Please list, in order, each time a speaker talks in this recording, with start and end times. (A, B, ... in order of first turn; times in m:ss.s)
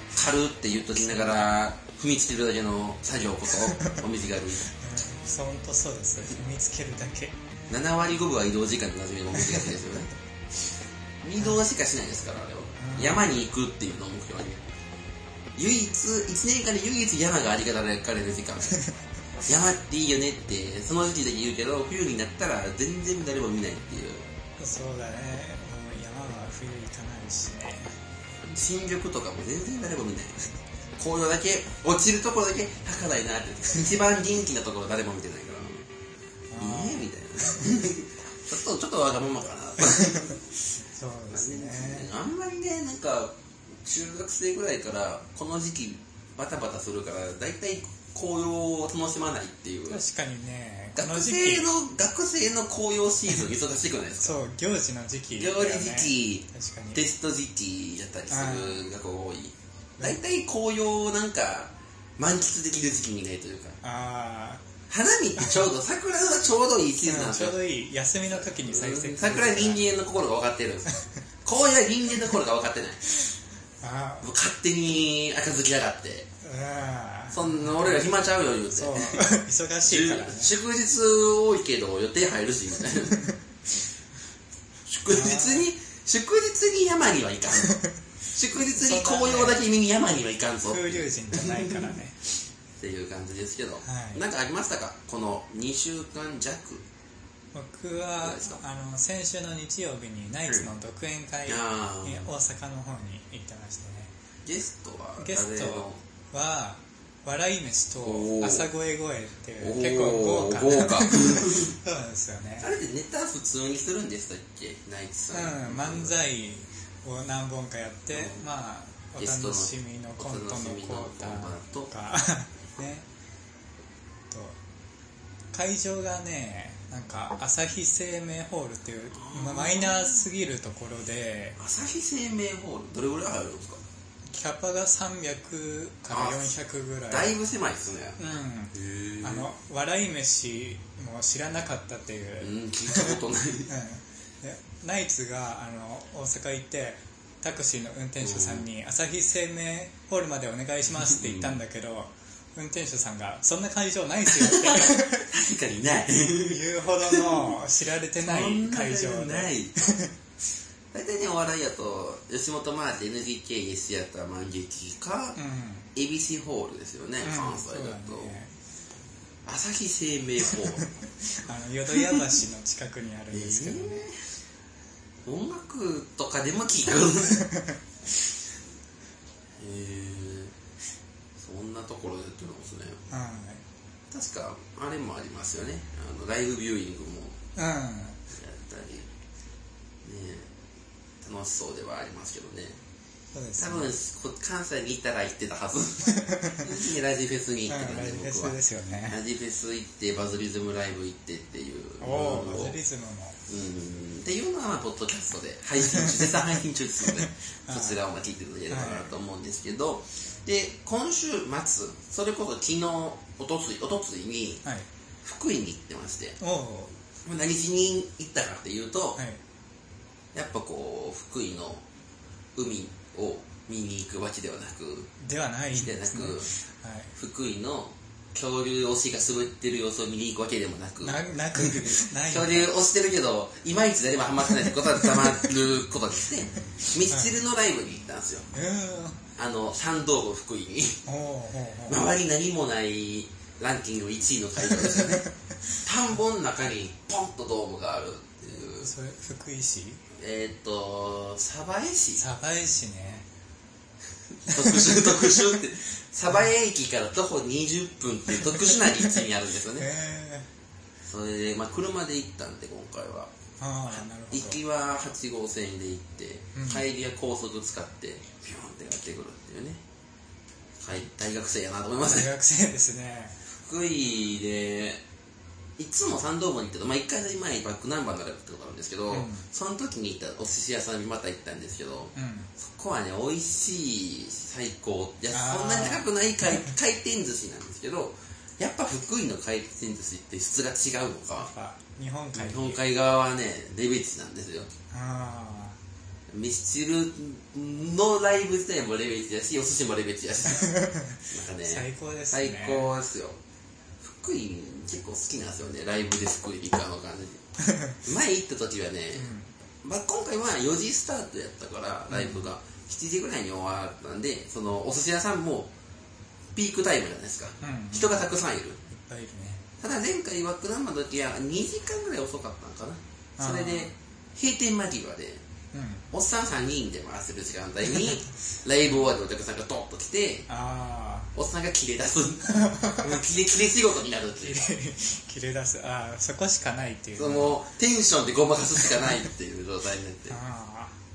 0:00.1-0:04.7 A
0:01.0-0:01.5 B
0:03.6-0:04.0 B
0:04.7-0:07.4 B
0:07.7-0:10.1 A
0:11.2-0:14.6 A
0:12.8-0:13.3 B
0:15.6-0:18.8 A
0:19.4-0:24.3 A
0:24.6-0:27.9 B
0:28.4-0:30.4 A
0:31.0-0:35.9 A
0:36.5-0:37.7 B
0:36.6-0:40.4 A
0:39.8-0:42.1 B
0:41.3-0:43.3 A
0:43.8-0:50.0 A
0:49.9-0:51.7 B
0:50.9-0:54.4 A
0:54.2-0:57.0 B
0:55.4-1:03.8 A
0:58.3-0:58.8 B
1:03.8-1:04.6 B
1:04.9-1:07.6 A
1:05.4-1:05.6 B
1:07.0-1:09.9 B
1:08.3-1:10.9 A
1:11.4-1:13.0 A
1:13.8-1:14.3 B
1:14.2-1:16.3 A
1:16.4-1:18.1 B
1:17.3-1:19.2 A
1:18.7-1:20.5 B
1:19.9-1:23.4 A
1:24.8-1:31.9 A
1:25.1-1:25.7 B
1:27.6-1:28.0 B
1:28.6-1:29.7 B
1:30.6-1:32.2 B
1:32.8-1:36.8 A
1:33.8-1:34.2 B
1:37.5-1:44.1 B
1:38.2-1:38.6 A
1:41.5-1:42.3 A
1:44.4-1:46.0 A
1:45.2-1:52.7 B
1:48.0-1:48.7 A
1:49.6-1:51.7 A
1:52.6-1:56.1 A
1:55.3-2:03.1 B
1:58.1-1:58.4 A
1:59.2-2:01.9 A
2:04.3-2:04.6 B
2:05.5-2:11.6 B
2:09.1-2:10.2 A
2:11.6-2:13.8 A
2:14.3-2:17.3 B
2:16.1-2:16.5 A
2:17.1-2:18.2 A
2:18.2-2:35.3 B
2:18.7-2:19.5 A
2:22.4-2:23.7 A
2:28.2-2:28.7 A
2:31.1-2:31.6 A
2:34.3-2:37.5 A
2:36.4-2:40.1 B
2:38.2-2:39.8 A
2:40.9-2:45.4 A
2:45.4-2:45.9 B
2:45.9-2:48.4 A
2:47.2-2:48.5 B
2:49.4-2:50.8 A
2:50.5-2:54.0 B
2:53.3-2:54.2 A
2:55.2-2:57.5 A
2:57.2-2:57.8 B
2:59.6-3:00.5 A
3:01.4-3:03.0 A
3:03.1-3:03.6 B
3:04.1-3:07.4 A
3:07.6-3:08.2 B
3:08.3-3:09.1 A
3:10.0-3:10.5 A
3:11.2-3:12.8 A
3:13.3-3:13.9 B
3:13.6-3:22.8 A
3:16.0-3:16.8 B
3:17.7-3:19.2 B
3:22.0-3:23.4 B
3:23.5-3:34.6 A
3:25.8-3:28.0 B
3:28.7-3:29.0 B
3:35.2-3:36.4 A
3:36.4-3:36.9 B
3:37.2-3:39.2 A
3:40.3-3:41.8 A
3:42.6-3:45.1 A
3:45.2-3:47.1 B
3:45.8-3:46.5 A
3:47.1-3:58.5 A
3:51.0-3:52.7 B
3:54.6-3:55.5 B
3:58.5-3:59.2 B
3:59.4-4:01.0 A
4:01.0-4:02.0 B
4:01.9-4:08.9 A
4:04.6-4:05.3 B
4:08.8-4:10.0 B
4:10.1-4:12.2 A
4:12.2-4:13.3 B
4:14.3-4:19.9 A
4:14.5-4:15.6 B
4:18.3-4:19.2 B
4:19.8-4:20.5 B
4:21.0-4:23.3 A
4:23.6-4:24.6 B
4:23.9-4:29.8 A
4:26.6-4:26.8 B
4:30.8-4:32.3 A
4:32.0-4:33.4 B
4:33.6-4:35.0 A
4:35.8-4:51.5 A
4:39.1-4:39.4 B
4:42.1-4:42.5 B
4:45.3-4:46.7 B
4:51.4-4:52.8 B
4:52.3-4:54.7 A
4:54.9-4:55.8 B
4:56.3-5:03.4 A
5:00.5-5:02.9 B
5:04.0-5:07.4 A
5:07.6-5:08.0 B
5:08.0-5:09.3 A
5:09.2-5:09.5 B
5:09.8-5:15.7 A
5:12.1-5:12.5 B
5:16.5-5:18.8 A
5:17.6-5:18.2 B
5:18.9-5:19.6 B
5:19.8-5:25.4 A
5:23.4-5:23.9 B
5:25.7-5:26.1 B
5:26.1-5:30.5 A
5:30.5-5:31.3 B
5:31.3-5:34.7 A
5:32.5-5:33.2 B
5:34.4-5:37.6 B
5:37.2-5:40.4 A
5:40.3-5:40.9 B